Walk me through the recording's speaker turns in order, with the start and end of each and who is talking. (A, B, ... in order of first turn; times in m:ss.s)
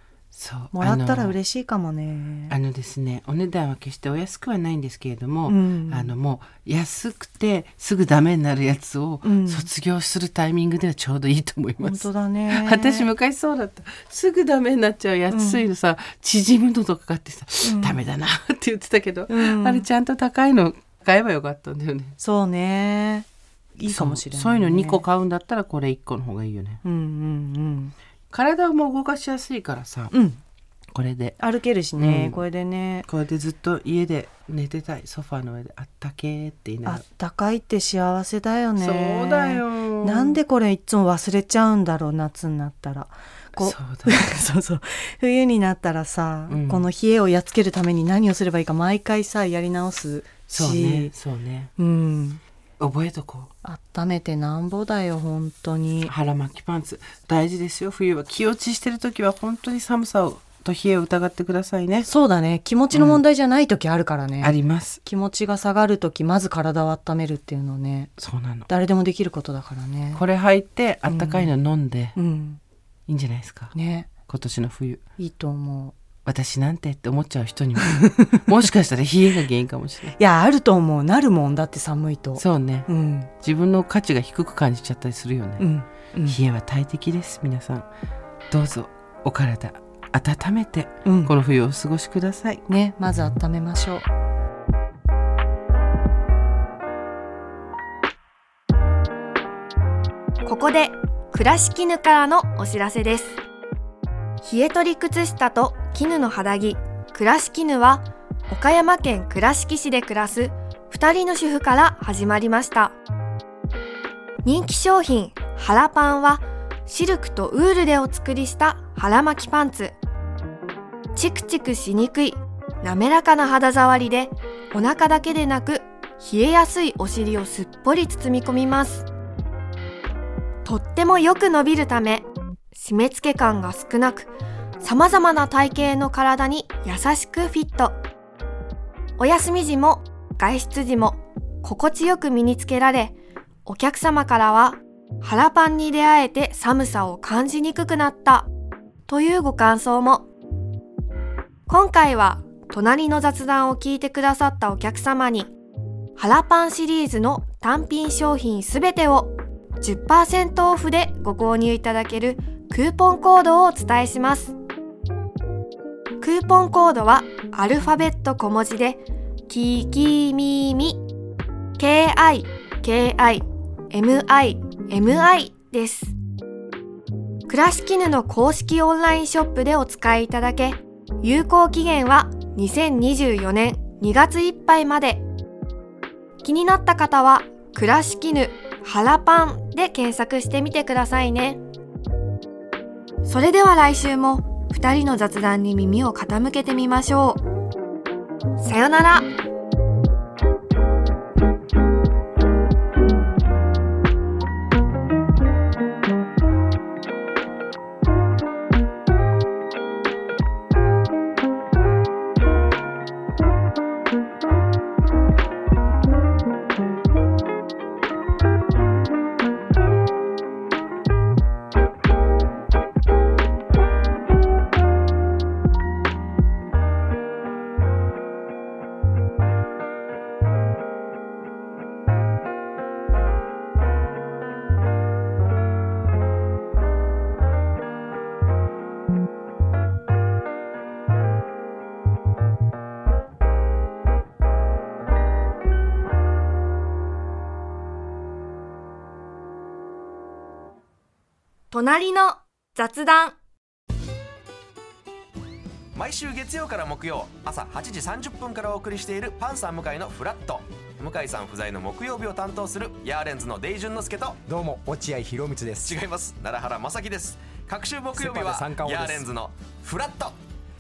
0:00.3-0:01.4 A
0:00.7-0:02.6 B
0:02.5-0:22.2 A
0:05.5-0:06.1 B
0:09.2-0:09.7 B
0:11.8-0:13.1 B
0:15.3-0:15.6 B
0:17.6-0:18.0 B
0:19.3-0:19.9 B
0:22.2-0:25.0 B
0:23.9-0:26.8 A
0:26.8-0:27.9 B
0:28.3-0:30.1 A
0:30.1-0:30.4 B
0:30.9-0:31.4 A
0:31.4-0:33.1 B
0:32.0-0:32.4 A
0:33.1-0:37.0 A
0:36.8-0:51.1 B
0:38.8-0:40.4 A
0:43.6-0:44.3 A
0:46.5-0:46.8 A
0:50.5-0:51.7 A
0:51.8-0:52.4 B
0:52.8-0:53.5 A
0:53.6-0:56.1 B
0:56.1-1:02.1 A
1:02.1-1:08.1 B
1:02.9-1:03.2 A
1:04.4-1:05.0 A
1:08.2-1:08.7 A
1:08.7-1:10.2 B
1:10.1-1:12.2 A
1:11.1-1:11.5 B
1:12.2-1:12.6 B
1:13.1-1:13.7 A
1:13.7-1:14.1 B
1:14.3-1:15.0 A
1:15.2-1:15.9 B
1:16.2-1:20.2 A
1:17.8-1:18.5 B
1:20.2-1:23.3 B
1:22.4-1:25.7 A
1:25.6-1:26.4 B
1:26.3-1:27.9 A
1:28.5-1:32.6 A
1:31.0-1:31.3 B
1:32.7-1:34.1 B
1:40.4-1:43.4 C
1:44.4-1:53.0 C
1:54.4-2:00.0 C
2:01.1-2:09.1 C
2:10.6-2:18.0 C
2:19.2-2:23.1 C
2:23.7-2:28.5 C
2:29.1-2:30.3 C
2:31.7-2:35.5 C
2:36.2-2:44.6 C
2:46.2-2:51.0 C
2:51.8-2:56.2 C
2:57.5-3:05.2 C
3:06.4-3:11.6 C
3:13.2-3:17.4 C
3:18.6-3:19.3 C
4:11.7-4:13.4 C
4:16.0-4:24.5 D
4:24.5-4:26.0 E
4:25.8-4:30.4 D
4:28.1-4:29.3 E